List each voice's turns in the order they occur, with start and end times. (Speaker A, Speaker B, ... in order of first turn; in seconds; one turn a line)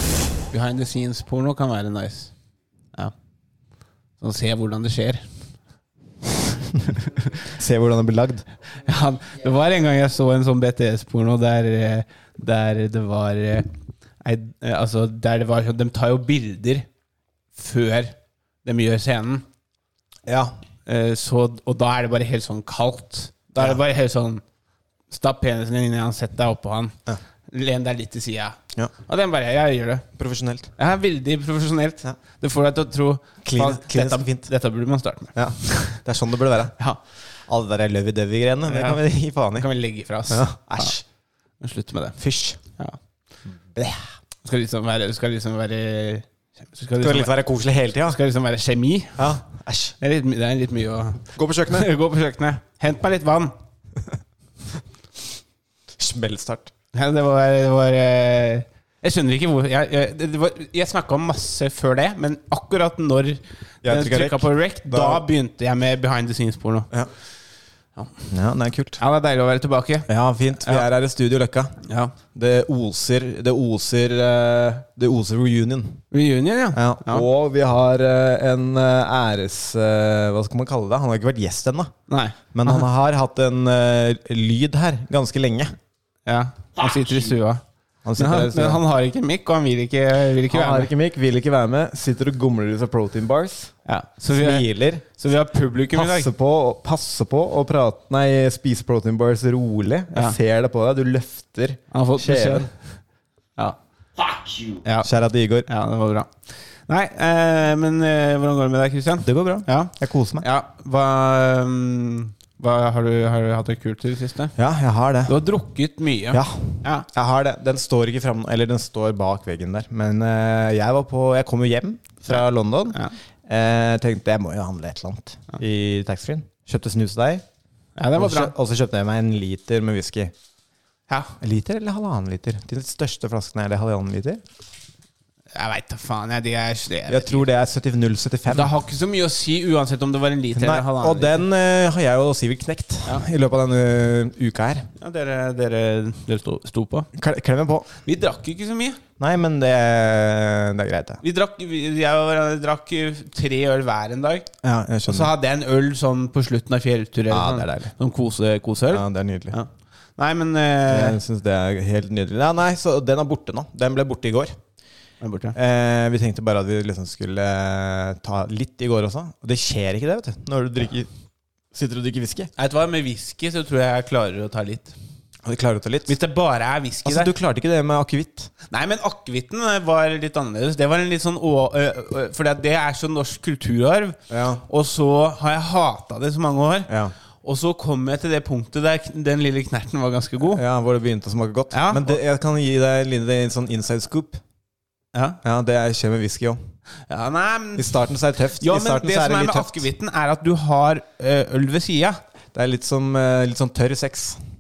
Speaker A: 0.5-2.3
Speaker A: 4.2-5.3
Speaker A: 6.9-7.2
Speaker B: 7.6-8.5
Speaker A: 8.8-13.7
Speaker A: 14.2-16.9
Speaker A: 17.6-19.4
Speaker B: 20.3-20.5
Speaker A: 20.9-24.4
Speaker A: 25.1-26.9
Speaker A: 27.5-30.1
Speaker B: 30.2-30.7
Speaker A: 30.8-36.0
Speaker B: 33.4-34.5
Speaker B: 35.4-36.8
Speaker B: 37.5-39.7
Speaker A: 38.7-39.0
Speaker A: 39.5-40.9
Speaker B: 40.3-41.0
Speaker A: 41.6-42.2
Speaker B: 42.2-42.6
Speaker B: 43.6-44.0
Speaker A: 44.4-47.4
Speaker B: 47.0-48.2
Speaker A: 48.0-49.3
Speaker B: 49.2-50.0
Speaker A: 50.0-53.5
Speaker B: 51.4-51.9
Speaker B: 56.0-56.7
Speaker A: 56.9-66.9
Speaker B: 63.8-65.3
Speaker A: 68.0-68.2
Speaker B: 68.3-69.0
Speaker A: 69.0-70.1
Speaker B: 70.1-71.8
Speaker A: 70.6-70.9
Speaker A: 71.8-72.2
Speaker B: 72.3-76.0
Speaker A: 76.1-77.3
Speaker B: 76.7-81.9
Speaker A: 82.1-82.8
Speaker B: 82.5-85.8
Speaker A: 86.3-87.6
Speaker B: 88.0-88.8
Speaker A: 88.2-90.9
Speaker B: 90.5-93.7
Speaker A: 93.8-96.3
Speaker B: 94.3-95.0
Speaker B: 95.9-102.7
Speaker A: 101.9-103.0
Speaker B: 105.0-105.7
Speaker A: 105.7-114.5
Speaker B: 109.2-110.5
Speaker B: 114.6-115.4
Speaker A: 115.3-117.1
Speaker B: 116.3-127.4
Speaker A: 122.3-123.1
Speaker A: 128.0-128.5
Speaker B: 128.2-130.3
Speaker A: 131.1-131.4
Speaker B: 131.4-134.4
Speaker A: 135.5-137.5
Speaker B: 137.1-138.7
Speaker A: 138.5-141.4
Speaker B: 140.6-144.9
Speaker A: 145.0-147.1
Speaker B: 147.2-147.9
Speaker A: 148.0-149.0
Speaker B: 149.2-151.2
Speaker A: 151.2-154.5
Speaker B: 154.6-155.3
Speaker A: 155.1-161.2
Speaker B: 157.3-157.9
Speaker B: 158.9-159.6
Speaker B: 160.9-164.6
Speaker A: 165.2-165.6
Speaker B: 165.6-171.1
Speaker B: 171.7-172.5
Speaker A: 172.6-175.0
Speaker B: 175.4-176.2
Speaker A: 176.1-177.3
Speaker B: 177.0-178.5
Speaker A: 178.7-186.9
Speaker B: 184.3-184.6
Speaker B: 186.9-187.1
Speaker A: 187.4-190.6
Speaker B: 190.4-194.4
Speaker A: 191.7-192.2
Speaker A: 195.1-195.4
Speaker B: 195.4-196.6
Speaker A: 197.1-202.2
Speaker B: 197.8-199.8
Speaker B: 202.5-204.4